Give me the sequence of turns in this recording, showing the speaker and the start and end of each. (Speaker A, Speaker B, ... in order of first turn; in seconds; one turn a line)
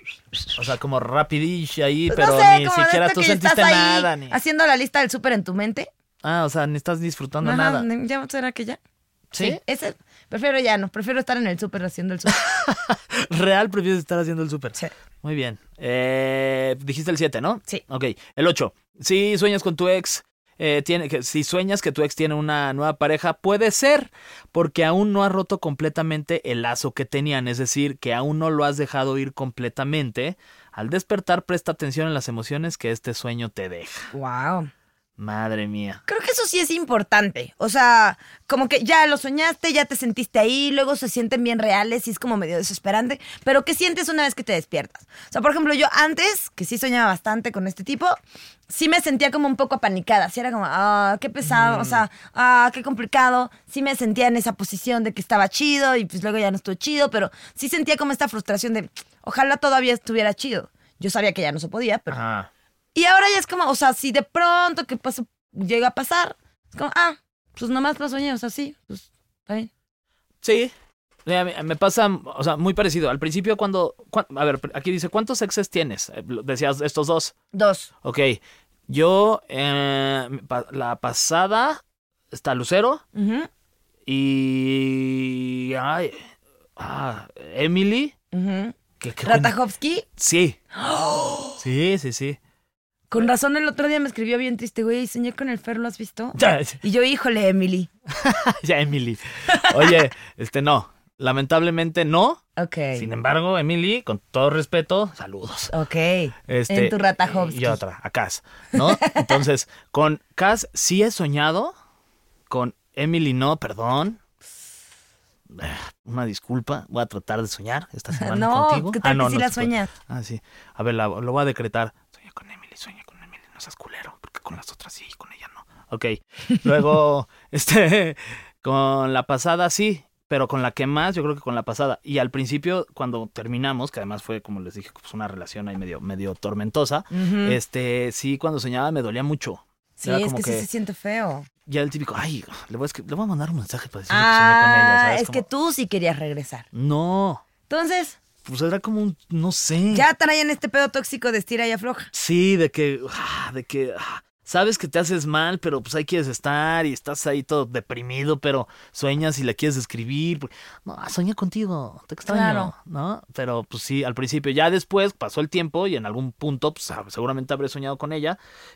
Speaker A: 0.5-4.4
Speaker B: 2.1-5.9
Speaker A: 6.2-7.9
Speaker B: 7.4-8.8
Speaker A: 9.3-9.6
Speaker B: 9.4-12.4
Speaker A: 12.3-34.1
Speaker B: 34.1-34.7
Speaker A: 35.2-36.0
Speaker B: 36.1-48.2
Speaker B: 48.7-62.2
Speaker A: 51.4-52.0
Speaker A: 62.1-62.5
Speaker B: 63.0-69.7
Speaker A: 70.4-70.7
Speaker A: 71.3-77.3
Speaker B: 77.5-77.9
Speaker A: 78.0-81.8
Speaker A: 82.3-83.0
Speaker B: 83.2-83.5
Speaker A: 84.1-86.3
Speaker A: 86.8-88.2
Speaker B: 88.3-90.1
Speaker A: 89.0-89.5
Speaker A: 90.2-90.6
Speaker B: 90.8-91.6
Speaker A: 91.6-92.4
Speaker B: 93.1-97.9
Speaker A: 96.3-96.8
Speaker A: 98.2-102.4
Speaker B: 102.6-103.1
Speaker A: 103.0-105.7
Speaker B: 105.7-107.8
Speaker A: 106.5-111.7
Speaker A: 112.5-114.2
Speaker A: 115.5-140.7
Speaker B: 118.2-119.9
Speaker B: 137.1-137.6
Speaker B: 140.0-141.5
Speaker A: 141.7-145.4
Speaker B: 144.1-146.7
Speaker A: 146.7-147.4
Speaker B: 147.7-148.2
Speaker A: 148.4-150.1
Speaker B: 149.9-152.1
Speaker A: 152.1-168.4
Speaker B: 162.3-162.7